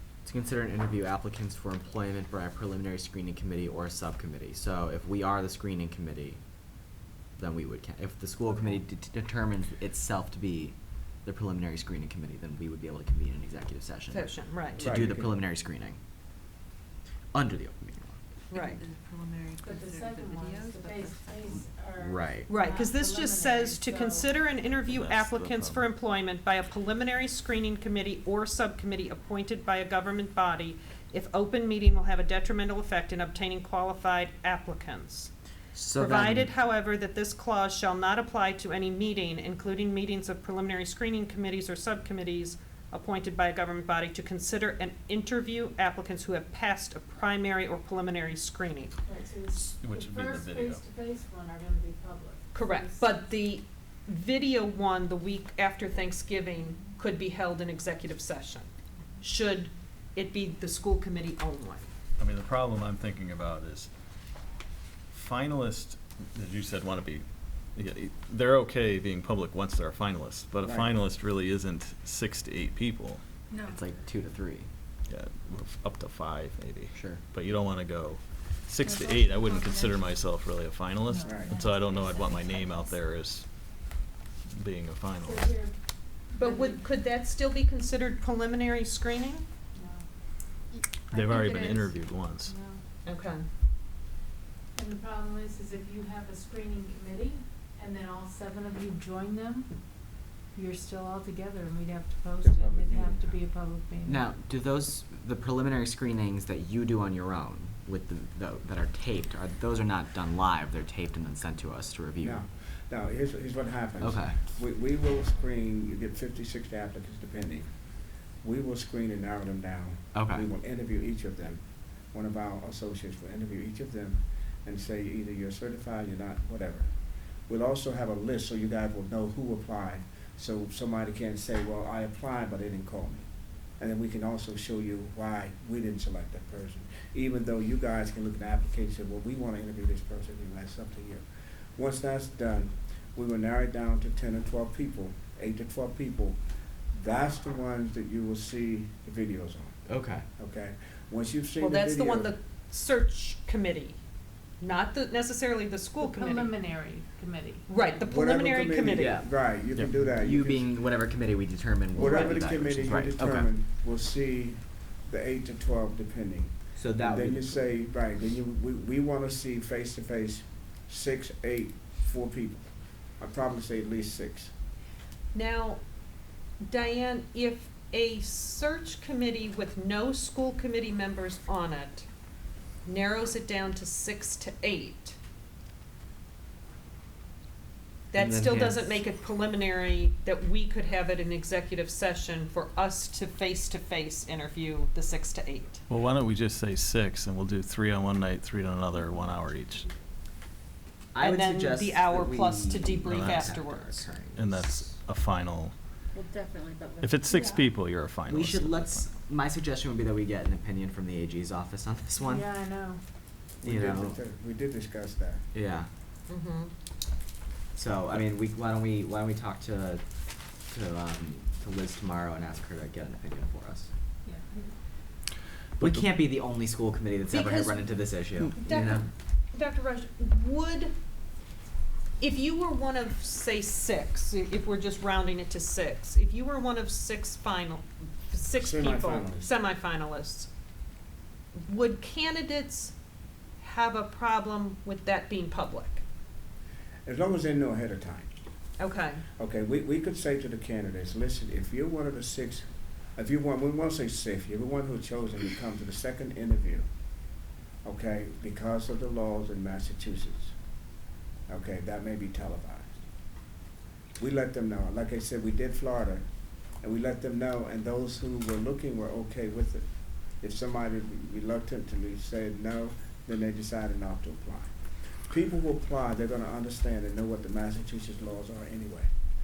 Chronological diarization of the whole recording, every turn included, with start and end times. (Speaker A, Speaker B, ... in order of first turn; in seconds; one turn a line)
Speaker A: 0.2-6.4
Speaker A: 7.4-16.0
Speaker B: 14.1-14.9
Speaker C: 14.8-15.4
Speaker A: 17.3-18.2
Speaker B: 18.5-18.8
Speaker D: 18.5-21.8
Speaker E: 19.6-24.3
Speaker A: 22.0-22.5
Speaker B: 22.5-35.3
Speaker F: 24.9-25.8
Speaker A: 35.7-36.5
Speaker B: 36.0-48.9
Speaker E: 49.0-53.0
Speaker F: 49.8-50.8
Speaker B: 52.5-58.7
Speaker B: 59.2-61.9
Speaker F: 62.2-63.9
Speaker F: 65.1-73.2
Speaker C: 70.6-70.9
Speaker A: 73.6-74.7
Speaker F: 75.1-83.5
Speaker A: 76.9-77.2
Speaker E: 78.9-79.8
Speaker D: 79.1-79.9
Speaker E: 81.1-82.5
Speaker C: 81.2-81.5
Speaker F: 84.5-85.5
Speaker E: 85.2-85.7
Speaker E: 86.3-86.8
Speaker B: 86.3-89.4
Speaker E: 89.7-90.0
Speaker F: 91.1-92.5
Speaker D: 91.1-91.9
Speaker E: 92.5-92.8
Speaker B: 93.0-93.4
Speaker E: 94.7-99.7
Speaker E: 100.5-104.3
Speaker C: 102.4-103.4
Speaker A: 104.0-112.4
Speaker C: 112.2-117.7
Speaker A: 114.0-114.4
Speaker C: 118.4-126.9
Speaker A: 120.1-120.5
Speaker C: 127.5-133.3
Speaker C: 133.8-141.2
Speaker C: 141.8-146.4
Speaker C: 146.9-149.8
Speaker A: 149.9-150.2
Speaker C: 150.4-152.3
Speaker B: 151.6-154.0
Speaker B: 154.6-156.5
Speaker E: 156.0-157.7
Speaker B: 157.7-159.2
Speaker C: 158.1-160.7
Speaker A: 159.0-159.4
Speaker A: 160.1-163.5
Speaker C: 161.9-172.7
Speaker B: 161.9-162.3
Speaker A: 166.8-167.8
Speaker C: 173.2-174.5
Speaker B: 175.3-175.8
Speaker B: 176.6-182.1
Speaker B: 182.8-185.2
Speaker B: 188.1-195.8
Speaker A: 188.1-188.9
Speaker F: 195.9-199.9
Speaker A: 201.1-204.6
Speaker B: 201.2-204.1
Speaker F: 203.0-203.4
Speaker F: 204.3-205.7
Speaker D: 206.1-207.3
Speaker F: 207.0-209.1
Speaker E: 207.2-207.7
Speaker A: 208.3-212.5
Speaker E: 212.2-213.0
Speaker C: 213.6-215.5
Speaker A: 213.6-214.2
Speaker A: 215.5-215.9
Speaker B: 216.3-216.7
Speaker A: 217.7-220.0
Speaker A: 220.7-223.9
Speaker E: 224.2-224.7
Speaker A: 225.8-229.1
Speaker F: 225.8-226.1
Speaker B: 227.2-227.9
Speaker B: 228.5-230.9
Speaker B: 232.2-240.5
Speaker C: 238.5-239.5
Speaker B: 241.6-242.9
Speaker B: 243.6-246.0
Speaker C: 247.0-248.3
Speaker B: 248.8-249.2
Speaker C: 249.4-256.9
Speaker C: 257.8-260.5
Speaker C: 261.5-263.0
Speaker C: 264.2-266.2
Speaker C: 266.8-269.8
Speaker C: 270.4-274.7
Speaker C: 275.3-279.1